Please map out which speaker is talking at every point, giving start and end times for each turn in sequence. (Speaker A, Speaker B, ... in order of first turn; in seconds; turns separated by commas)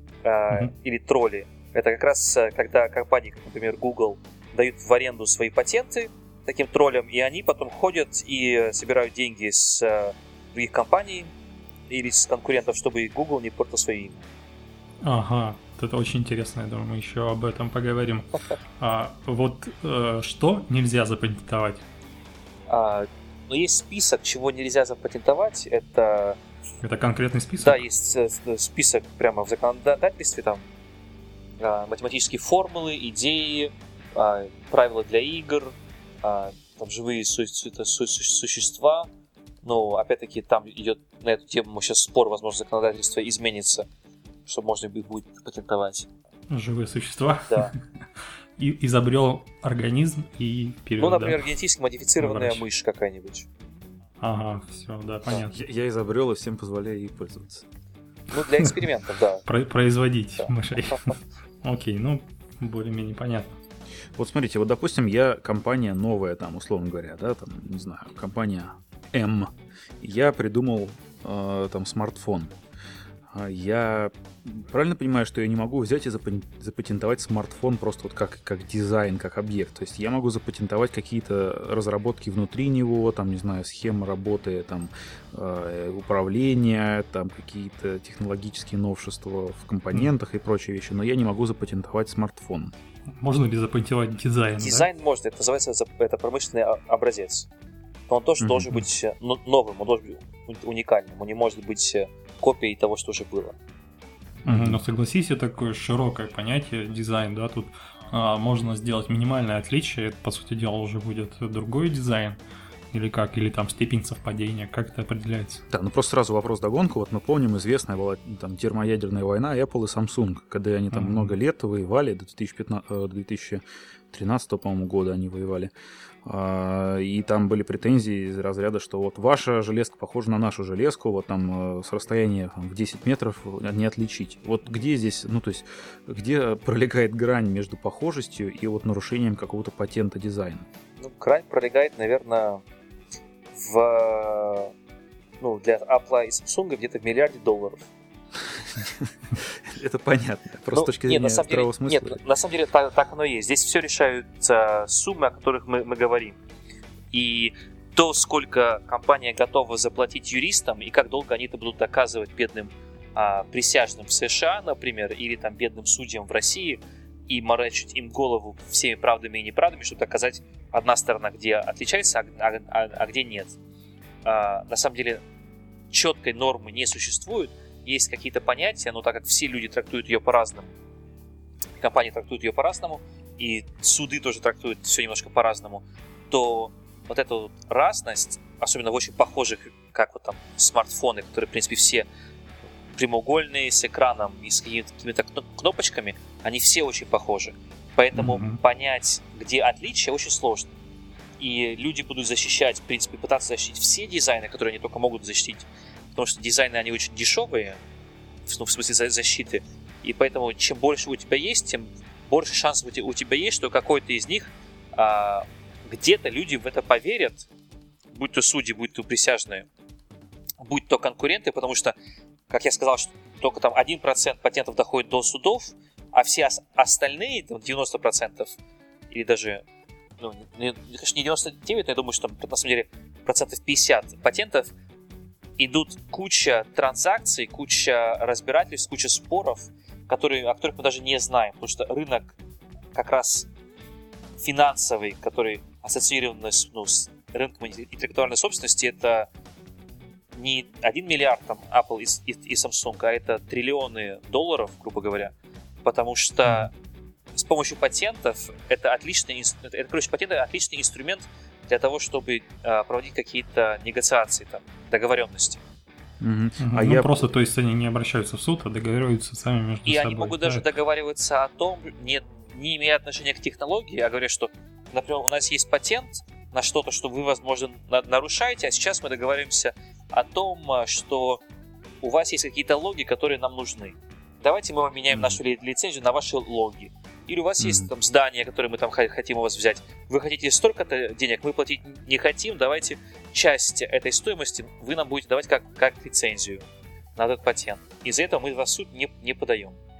Speaker A: 0.2-11.3, Speaker A: 11.9-14.2, Speaker B: 15.0-21.8, Speaker A: 22.7-26.4, Speaker B: 26.8-27.8, Speaker A: 27.6-30.6, Speaker A: 31.6-39.1, Speaker A: 39.6-43.9, Speaker A: 44.5-46.1, Speaker B: 46.5-47.8, Speaker B: 48.6-51.4, Speaker A: 51.0-53.5, Speaker B: 52.2-52.6, Speaker B: 54.2-55.5, Speaker C: 55.5-57.6, Speaker A: 58.3-59.4, Speaker B: 59.5-63.6, Speaker A: 60.4-61.0, Speaker C: 64.2-72.5, Speaker C: 73.3-92.7, Speaker B: 93.2-94.9, Speaker A: 94.6-97.5, Speaker A: 98.1-103.6, Speaker C: 98.4-98.8, Speaker C: 104.4-104.8, Speaker B: 104.4-112.4, Speaker B: 112.9-115.6, Speaker C: 115.7-125.7, Speaker B: 120.9-121.3, Speaker C: 126.2-140.7, Speaker A: 141.0-142.6, Speaker A: 143.5-144.7, Speaker A: 145.4-147.8, Speaker C: 148.5-152.2, Speaker A: 150.7-156.4, Speaker A: 157.1-173.6, Speaker A: 174.2-175.2, Speaker A: 175.9-180.7, Speaker A: 181.8-192.1, Speaker A: 192.9-200.7, Speaker B: 198.2-198.6, Speaker A: 201.4-207.8, Speaker A: 208.4-217.5, Speaker A: 218.1-219.7, Speaker A: 220.6-221.9, Speaker A: 222.5-228.5, Speaker A: 229.1-229.6, Speaker A: 230.2-234.7, Speaker A: 235.6-242.4, Speaker A: 242.9-243.5, Speaker A: 244.4-249.3, Speaker A: 250.3-255.3, Speaker A: 255.8-256.7, Speaker A: 257.3-265.6, Speaker C: 266.2-267.2, Speaker B: 266.6-270.6, Speaker A: 269.8-281.4, Speaker A: 282.0-296.6, Speaker C: 285.1-285.4, Speaker C: 287.6-287.9, Speaker A: 297.1-299.8